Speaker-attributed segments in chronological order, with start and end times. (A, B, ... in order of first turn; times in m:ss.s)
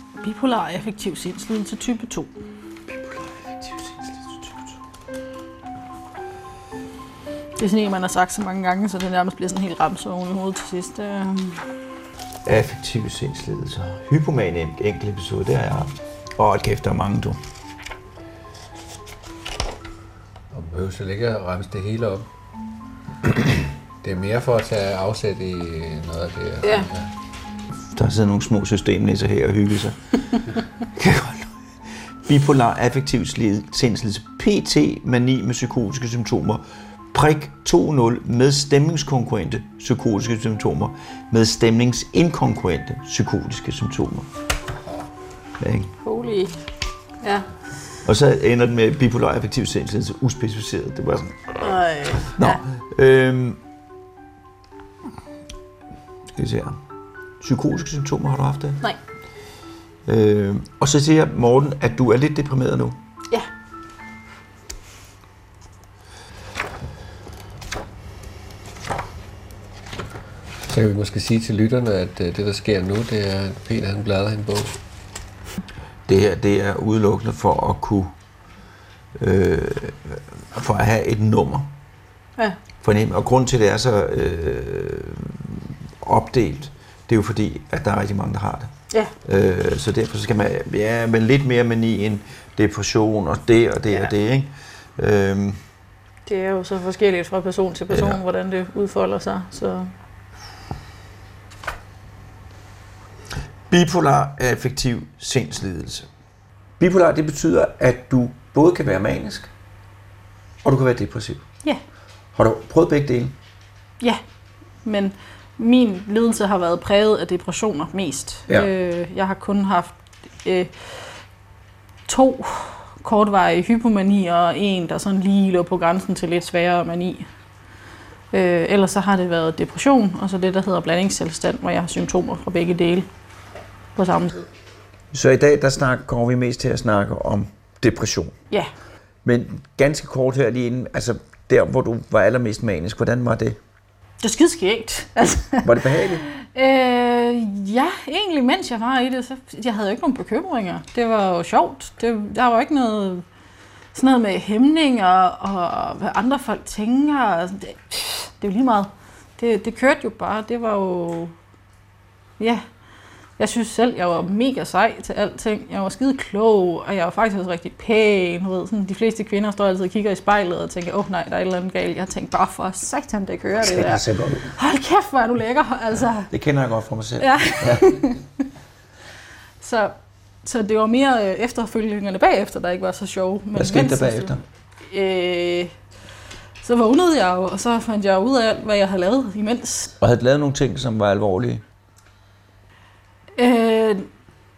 0:00.2-0:02.3 A
0:03.0-0:04.2 B
0:07.6-0:11.7 A
0:12.4-0:17.4 B
0:20.5-0:22.2 C
0:24.0-0:27.1 C
0:26.6-0:26.9 A
0:27.9-0:44.3 B
0:45.6-0:45.9 B
0:46.0-0:46.6 A
0:47.2-0:47.5 A
0:48.0-0:51.6 B
0:51.6-0:52.6 A
0:52.3-0:53.6 B
0:56.3-0:56.8 B
0:57.4-0:58.8 B
1:00.0-1:03.0 B
1:10.7-1:14.8 C
1:16.1-1:18.1 B
1:19.2-1:21.7 B
1:22.8-1:28.7 B
1:29.2-1:35.6 B
1:36.2-1:39.9 A
1:37.9-1:38.2 B
1:43.7-1:46.1 B
1:46.8-1:49.5 B
1:50.6-1:51.4 B
1:52.3-1:53.4 B
1:54.8-2:01.2 A
2:02.1-2:07.3 A
2:08.3-2:13.1 A
2:14.0-2:14.4 A
2:15.1-2:18.3 B
2:19.2-2:23.6 B
2:24.2-2:25.7 A
2:25.6-2:26.2 B
2:26.3-2:33.2 A
2:33.9-2:41.3 A
2:42.4-2:42.6 A
2:43.4-2:56.3 A
2:53.6-2:54.5 B
2:56.3-2:58.0 B
2:57.2-2:58.2 A
2:59.6-3:05.7 A
3:03.5-3:04.4 B
3:06.6-3:09.9 A
3:10.0-3:11.6 B
3:13.4-3:14.1 A